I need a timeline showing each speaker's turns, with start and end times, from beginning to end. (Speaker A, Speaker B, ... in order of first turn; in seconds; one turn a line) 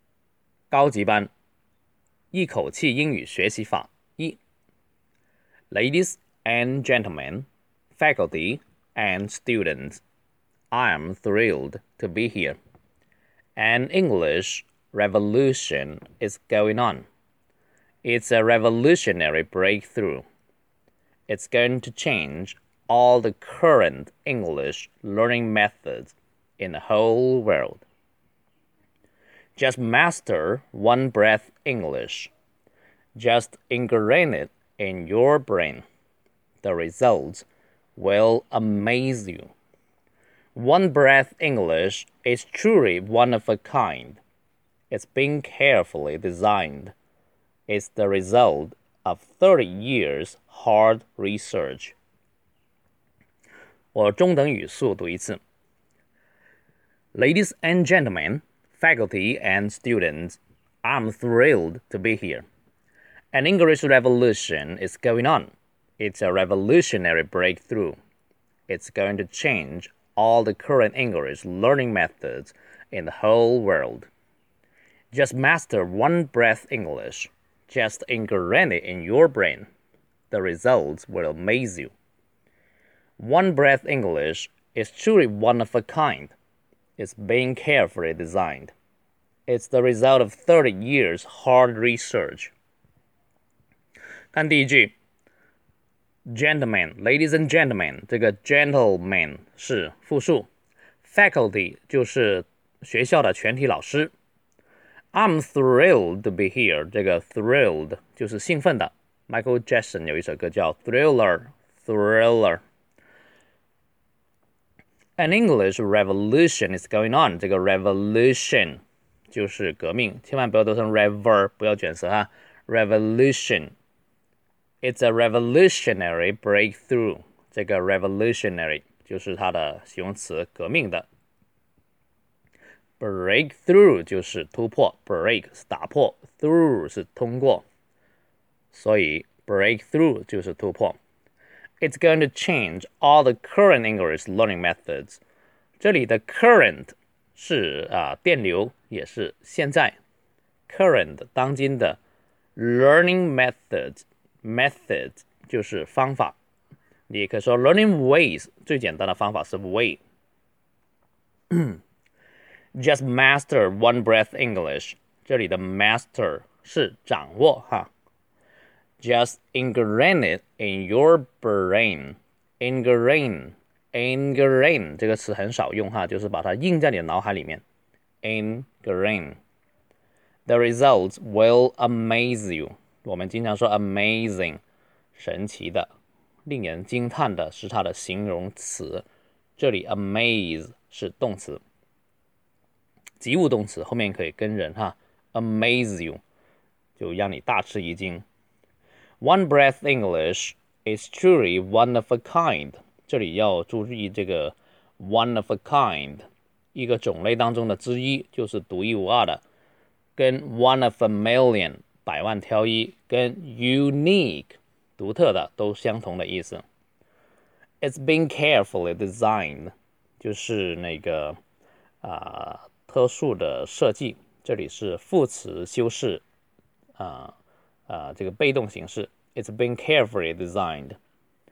Speaker A: 0.7-1.3
Speaker A: 2.3-4.4
Speaker A: 5.7-10.0
Speaker A: 10.7-12.6
Speaker A: 13.6-17.1
Speaker A: 18.0-20.2
Speaker A: 21.3-27.8
Speaker A: 29.6-32.3
Speaker A: 33.2-35.8
Speaker A: 36.6-39.5
Speaker A: 40.5-44.2
Speaker A: 44.9-46.9
Speaker A: 47.7-52.0
Speaker A: 53.9-55.4
Speaker A: 57.1-62.5
Speaker A: 63.3-68.0
Speaker A: 68.7-74.1
Speaker A: 75.1-79.7
Speaker A: 80.3-81.9
Speaker A: 83.2-86.3
Speaker A: 87.0-88.7
Speaker A: 89.5-92.5
Speaker A: 94.3-94.9
Speaker A: 96.3-100.5
Speaker A: 101.0-104.1
Speaker A: 105.1-112.6
Speaker A: 115.2-123.7
Speaker A: 124.8-131.1
Speaker A: 133.0-137.7
Speaker A: 138.7-141.0
Speaker A: 141.8-145.2
Speaker A: 145.8-150.0
Speaker A: 150.7-152.0
Speaker A: 152.6-156.3
Speaker A: 157.1-160.0
Speaker A: 161.5-161.8
Speaker A: 162.8-167.9
Speaker A: 169.0-177.6
Speaker A: 178.2-179.4
Speaker A: 180.5-184.6
Speaker A: 185.2-185.9
Speaker A: 186.5-189.1
Speaker A: 189.6-191.6
Speaker A: 193.2-196.2
Speaker A: 197.0-198.2
Speaker A: 199.2-209.4
Speaker A: 210.2-216.6
Speaker A: 217.8-221.4
Speaker A: 222.0-226.2
Speaker A: 227.0-227.3
Speaker A: 227.9-231.0